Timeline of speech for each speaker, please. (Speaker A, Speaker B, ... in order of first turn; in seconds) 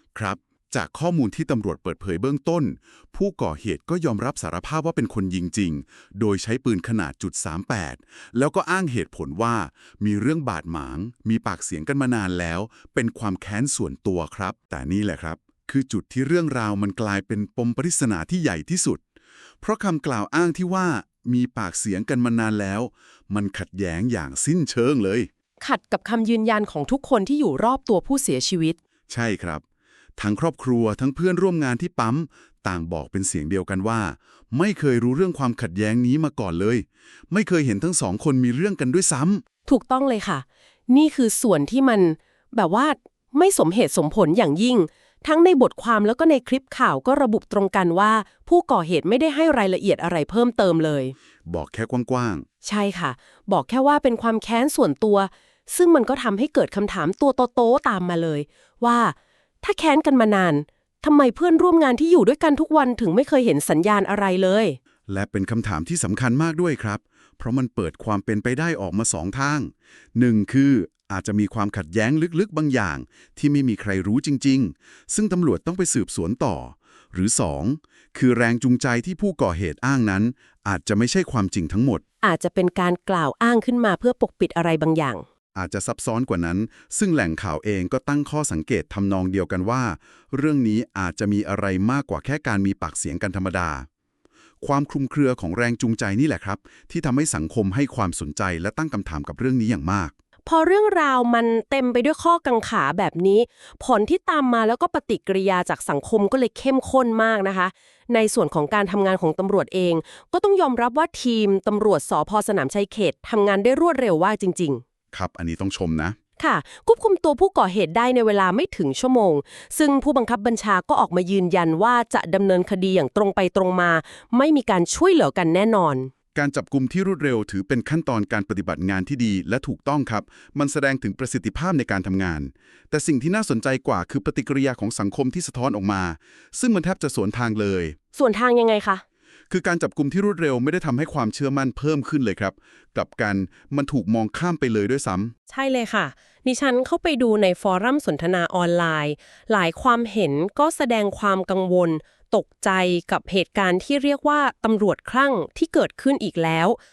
Speaker A: 0.1-19.0, 19.6-25.3, 29.1-29.6, 30.2-39.4, 51.4-52.4, 65.1-82.0, 85.5-93.9, 94.6-100.1, 115.1-116.2, 126.3-137.9, 139.5-145.3
Speaker B: 25.6-28.8, 39.6-51.1, 52.6-64.8, 82.2-85.2, 100.5-114.8, 116.4-126.1, 138.1-139.0, 145.5-156.8